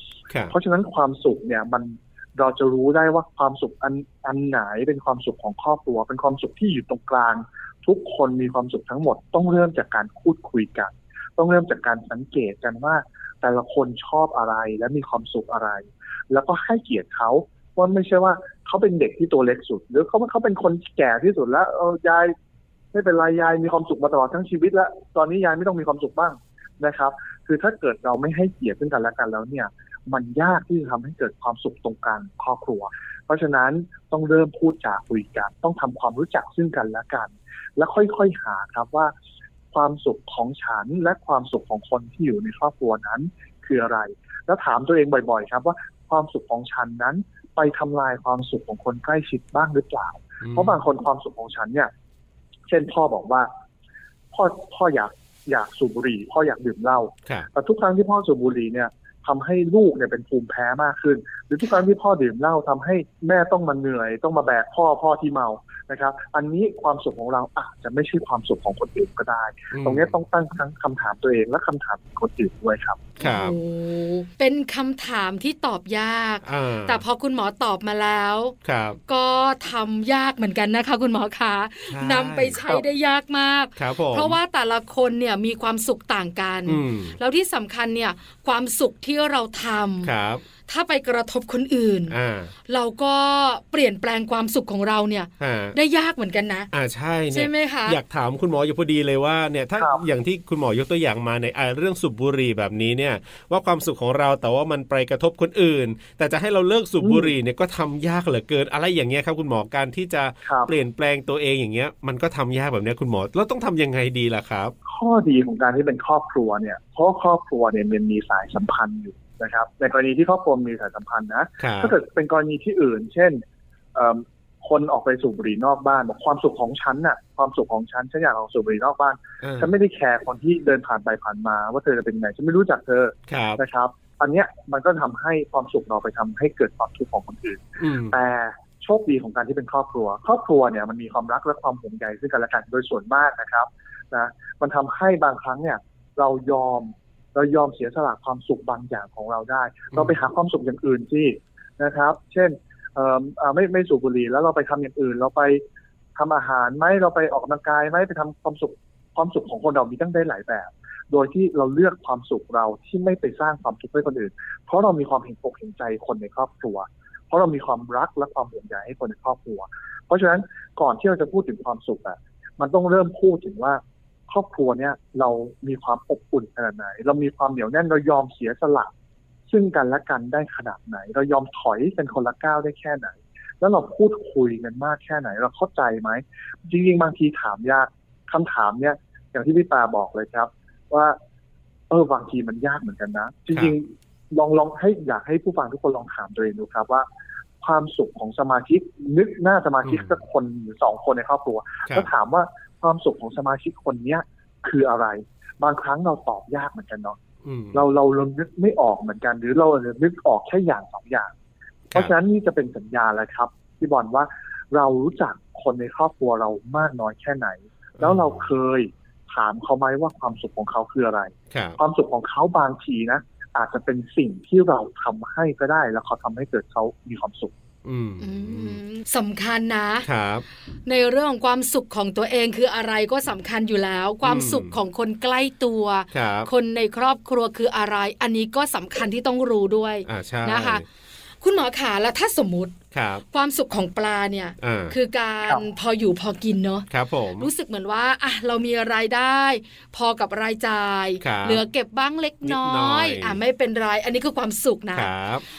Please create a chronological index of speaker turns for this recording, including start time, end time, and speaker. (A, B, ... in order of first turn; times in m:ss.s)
0:00.5-0:22.3 A
0:22.9-0:39.1 A
0:39.7-0:51.9 A
0:50.4-0:50.8 B
0:52.7-0:53.5 A
0:54.3-1:13.1 A
1:09.7-1:10.1 B
1:13.2-1:13.6 B
1:13.2-1:18.5 C
1:16.4-1:17.0 B
1:18.6-1:19.0 B
1:19.1-1:30.1 C
1:21.9-1:22.6 B
1:23.8-1:24.4 B
1:26.7-1:27.2 B
1:30.0-1:30.4 B
1:30.7-1:32.1 C
1:32.1-1:32.5 B
1:32.7-1:36.7 C
1:35.4-1:35.7 B
1:36.7-1:54.7 B
1:37.3-1:38.0 C
1:39.8-1:40.0 A
1:47.0-1:47.3 A
1:50.4-1:50.7 A
1:54.8-2:03.4 A
2:01.6-2:01.9 B
2:03.9-2:35.6 A
2:09.4-2:09.7 B
2:13.3-2:13.6 B
2:17.8-2:18.2 B
2:36.2-2:58.9 A
2:59.5-3:11.2 A
3:11.9-3:17.0 A
3:17.6-3:27.2 A
3:19.8-3:20.1 B
3:27.4-3:27.8 B
3:27.7-3:31.3 A
3:31.9-3:47.5 A
3:38.0-3:38.4 B
3:41.5-3:41.8 B
3:47.8-3:48.8 B
3:48.2-3:50.1 C
3:50.0-3:50.4 B
3:50.8-4:00.8 C
3:54.2-3:54.7 B
3:56.1-3:56.5 B
4:00.0-4:00.8 B
4:01.4-4:02.8 C
4:02.9-4:03.2 B
4:03.3-4:15.1 C
4:04.6-4:04.9 B
4:06.9-4:07.5 B
4:11.2-4:11.6 B
4:12.4-4:13.4 B
4:14.9-4:15.4 B